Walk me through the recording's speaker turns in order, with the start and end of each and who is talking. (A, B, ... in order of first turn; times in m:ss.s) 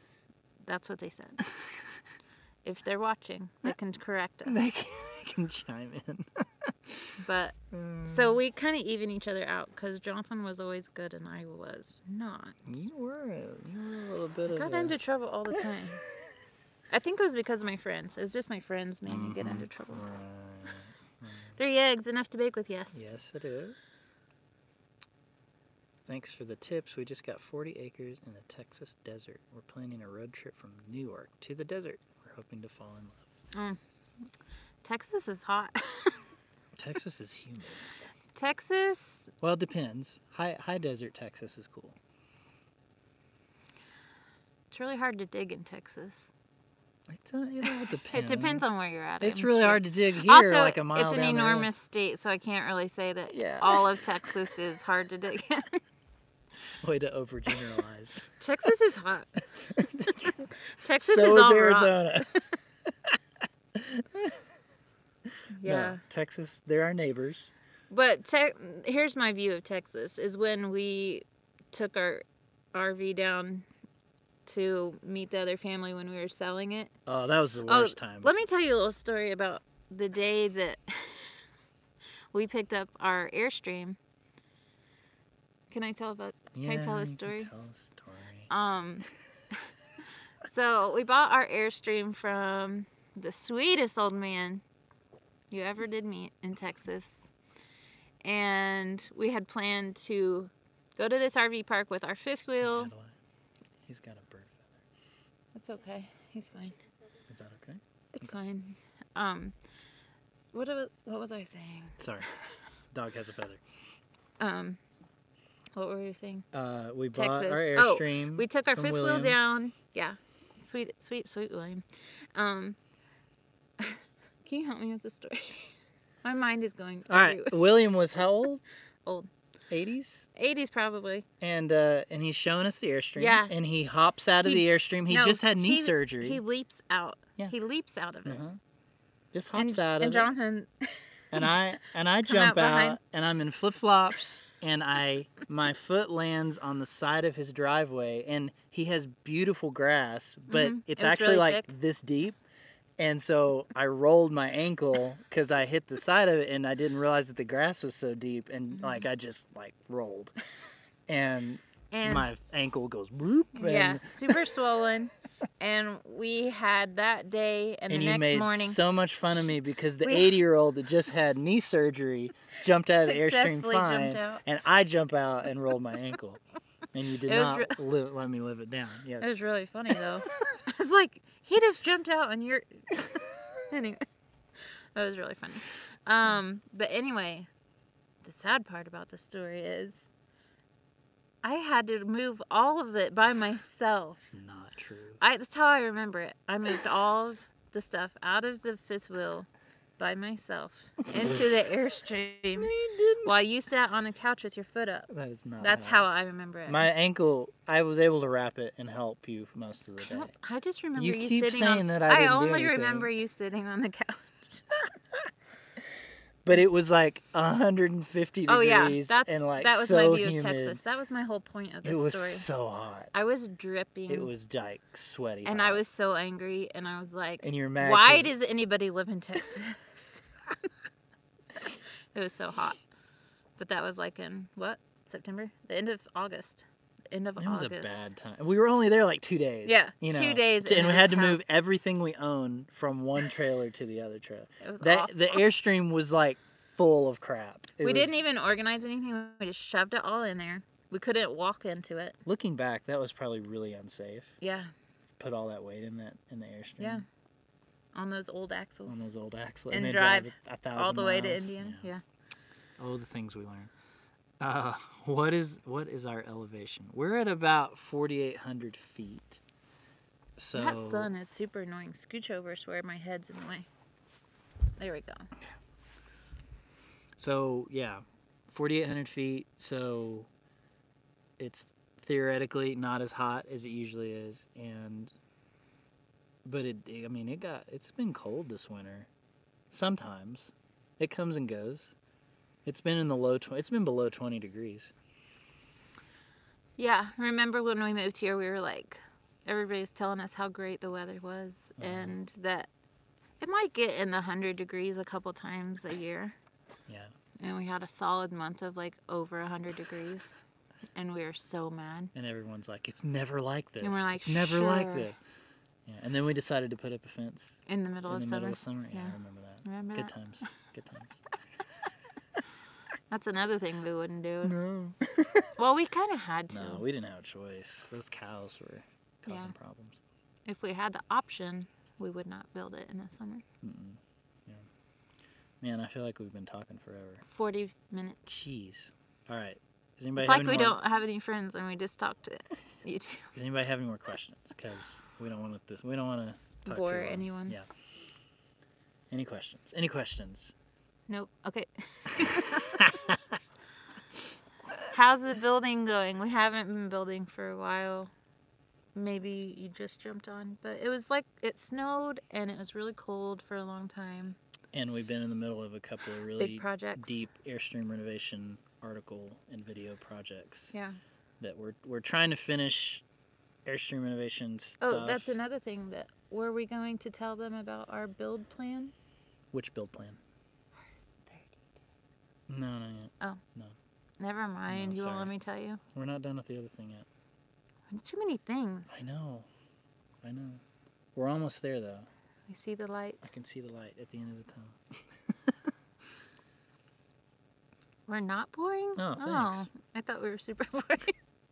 0:00.6-0:01.4 A
0:01.4-0:02.0 B
0:02.6-0:04.6 A
0:04.5-0:07.2 B
0:07.2-0:12.8 A
0:07.7-0:08.4 B
0:12.7-0:15.0 B
0:14.5-0:16.0 A
0:16.9-0:20.0 A
0:19.1-0:21.6 B
0:21.6-0:23.0 A
0:22.9-0:23.8 B
0:26.1-0:33.3 B
0:33.5-0:33.8 A
0:34.8-0:36.3 A
0:36.8-0:37.9 B
0:38.4-0:39.3 A
0:39.4-0:42.0 B
0:44.7-0:46.3 A
0:47.1-0:48.6 B
0:47.6-0:55.8 A
0:49.2-0:51.7 B
0:53.3-0:54.2 B
0:56.8-0:58.4 B
0:58.4-0:59.5 A
0:59.7-1:00.5 B
1:00.5-1:02.4 A
1:01.0-1:03.2 B
1:03.8-1:04.4 B
1:05.5-1:06.0 A
1:05.6-1:07.5 B
1:07.9-1:13.7 A
1:14.5-1:17.0 A
1:17.1-1:18.3 B
1:17.7-1:21.4 A
1:22.3-1:24.0 A
1:25.7-1:27.5 A
1:26.5-1:28.5 B
1:28.5-1:29.0 A
1:30.4-1:34.6 A
1:35.5-1:37.3 A
1:38.2-1:42.9 A
1:42.6-1:43.2 B
1:43.8-1:44.8 B
1:45.6-1:46.8 A
1:47.3-1:48.3 B
1:48.1-1:49.6 A
1:50.5-1:52.1 A
1:52.0-1:53.6 B
1:54.4-1:54.8 A
1:55.7-1:56.5 A
1:56.5-1:59.4 B
1:57.1-2:02.8 A
2:03.8-2:07.6 A
2:07.1-2:08.6 B
2:09.0-2:09.3 A
2:09.7-2:10.3 B
2:10.4-2:11.3 A
2:11.4-2:16.4 B
2:13.2-2:13.5 A
2:14.4-2:18.4 A
2:18.2-2:18.6 B
2:19.3-2:20.3 B
2:19.6-2:21.5 A
2:21.3-2:32.4 B
2:22.2-2:23.0 A
2:30.5-2:31.7 A
2:33.0-2:40.4 B
2:38.7-2:39.1 A
2:41.1-2:44.5 B
2:41.9-2:42.3 A
2:43.6-2:50.3 A
2:47.9-2:56.4 B
2:53.0-2:54.4 A
2:56.9-2:59.3 B
2:57.2-2:57.8 A
2:59.2-3:03.0 A
3:03.7-3:07.5 A
3:08.2-3:10.1 A
3:11.4-3:14.2 A
3:14.2-3:15.2 B
3:15.2-3:22.7 A
3:21.1-3:21.4 B
3:22.6-3:23.3 B
3:23.2-3:25.1 A
3:25.1-3:26.1 B
3:25.6-3:26.9 A
3:26.7-3:30.3 B
3:30.0-3:34.6 A
3:31.0-3:33.1 B
3:36.4-3:40.8 B
3:38.5-3:42.5 A
3:41.8-3:43.1 B
3:43.1-3:44.3 A
3:44.1-3:45.8 B
3:45.4-3:50.7 A
3:47.4-3:48.3 B
3:51.6-3:52.8 A
3:53.6-3:58.0 A
3:57.4-4:08.2 B
3:59.7-4:01.4 A
4:04.6-4:05.4 A
4:07.8-4:12.2 A
4:12.2-4:14.4 B
4:14.4-4:14.7 A
4:15.2-4:17.0 B
4:16.8-4:17.1 A
4:17.9-4:19.0 A
4:18.9-4:21.9 B
4:19.7-4:22.0 A
4:22.8-4:23.7 B
4:24.4-4:29.4 B
4:30.4-4:31.1 B
4:30.6-4:33.7 A
4:34.8-4:35.3 A
4:37.2-4:40.3 B
4:41.4-4:45.2 B
4:46.4-4:49.1 B
4:49.7-4:52.0 B
4:52.6-4:54.9 B
4:56.8-5:02.7 A
5:01.8-5:02.2 B
5:03.4-5:06.4 A
5:06.9-5:07.1 B
5:07.4-5:10.4 A
5:10.9-5:12.1 A
5:12.1-5:15.2 B
5:13.8-5:15.1 A
5:15.9-5:21.2 B
5:17.7-5:20.1 A
5:23.1-5:24.6 A
5:24.4-5:25.5 B
5:25.6-5:26.8 A
5:26.5-5:30.0 B
5:29.3-5:29.5 A
5:30.5-5:33.4 A
5:33.6-5:34.7 B
5:35.6-5:37.2 B
5:37.3-5:38.3 A
5:38.3-5:40.8 B
5:40.2-5:43.3 A
5:43.3-5:47.7 B
5:46.6-5:47.6 A
5:49.1-5:50.5 B
5:51.1-5:53.0 A
5:52.2-5:53.4 B
5:54.9-5:58.1 A
5:59.0-6:04.4 A
6:04.7-6:10.7 B
6:06.4-6:07.2 A
6:10.7-6:11.0 A
6:11.4-6:13.0 B
6:13.6-6:15.3 B
6:14.8-6:18.9 A
6:19.5-6:20.2 B
6:21.3-6:21.6 A
6:22.5-6:23.8 B
6:24.2-6:25.8 A
6:24.7-6:25.3 B
6:25.9-6:27.1 B
6:27.9-6:29.0 A
6:28.9-6:29.5 B
6:30.2-6:30.6 B
6:31.2-6:32.1 B
6:32.5-6:33.3 A
6:33.2-6:35.7 B
6:38.1-6:41.2 A
6:39.0-6:39.7 B